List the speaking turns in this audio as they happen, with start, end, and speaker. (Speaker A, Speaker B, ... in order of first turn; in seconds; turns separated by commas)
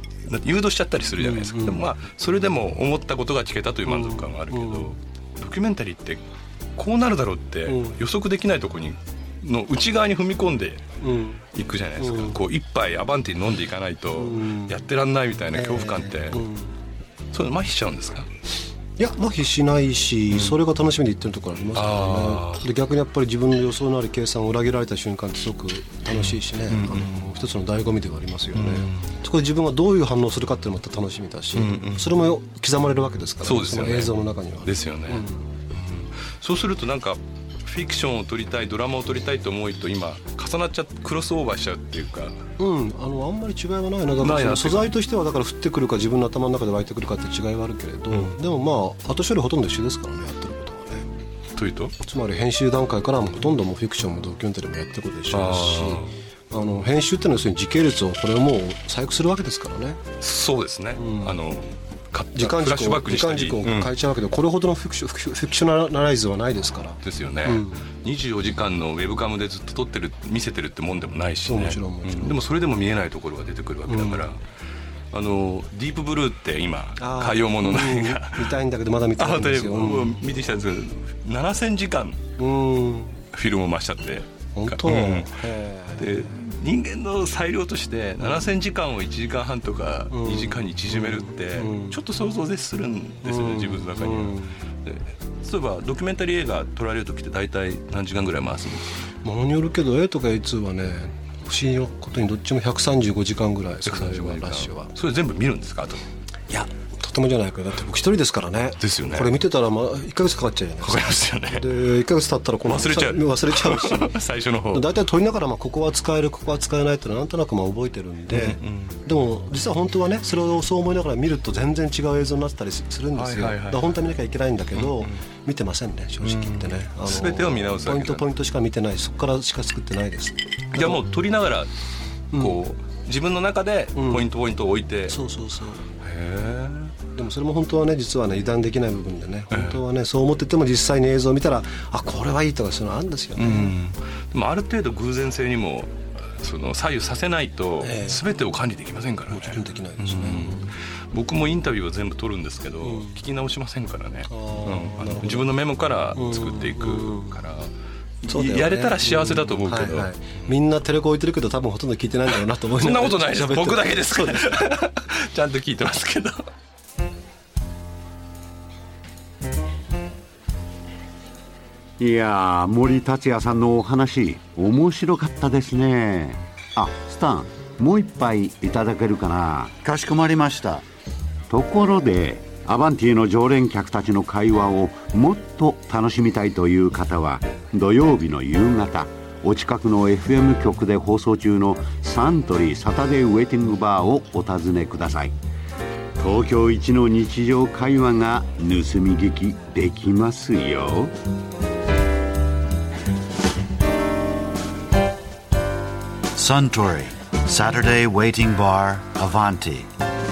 Speaker A: 0.2-6.2, Speaker B: 1.2-1.8, Speaker B: 3.9-4.9, Speaker A: 6.8-10.8, Speaker B: 7.7-8.0, Speaker B: 11.0-11.4, Speaker A: 11.5-16.4, Speaker B: 12.0-12.4, Speaker B: 14.2-14.8, Speaker B: 15.5-16.7, Speaker A: 17.3-18.3, Speaker B: 19.0-35.4, Speaker A: 21.8-22.6, Speaker A: 26.7-27.3, Speaker A: 28.6-29.1, Speaker A: 31.6-32.1, Speaker A: 33.4-42.4, Speaker B: 42.6-51.1, Speaker A: 44.2-44.9, Speaker A: 51.6-52.0, Speaker B: 52.0-60.0, Speaker A: 55.3-56.1, Speaker A: 60.2-63.9, Speaker B: 61.0-61.4, Speaker B: 62.4-67.8, Speaker A: 67.0-74.4, Speaker B: 71.5-72.4, Speaker B: 73.9-74.3, Speaker A: 75.1-78.6, Speaker B: 77.0-80.2, Speaker A: 79.2-82.2, Speaker B: 82.4-83.2, Speaker A: 83.3-85.3, Speaker B: 84.5-86.2, Speaker A: 86.0-98.9, Speaker B: 90.1-92.0, Speaker B: 93.2-94.6, Speaker B: 99.2-104.9, Speaker A: 103.9-106.0, Speaker B: 106.5-114.2, Speaker A: 108.8-109.4, Speaker A: 110.8-111.8, Speaker A: 112.7-114.9, Speaker B: 114.7-131.1, Speaker A: 118.3-119.0, Speaker A: 123.2-124.0, Speaker A: 124.8-125.1, Speaker A: 126.2-128.3, Speaker A: 130.7-131.7, Speaker A: 132.3-135.2, Speaker B: 134.0-134.3, Speaker B: 135.1-135.8, Speaker A: 136.0-136.9, Speaker B: 137.2-143.8, Speaker A: 139.5-139.8, Speaker A: 143.4-157.7, Speaker B: 147.8-148.2, Speaker B: 149.3-150.7, Speaker B: 152.8-153.2, Speaker B: 154.3-155.6, Speaker B: 156.1-157.4, Speaker A: 158.2-160.5, Speaker B: 158.3-164.6, Speaker A: 162.3-166.4, Speaker C: 172.0-179.7, Speaker D: 179.8-180.8, Speaker C: 181.5-195.3, Speaker C: 196.2-201.1, Speaker D: 206.3-209.9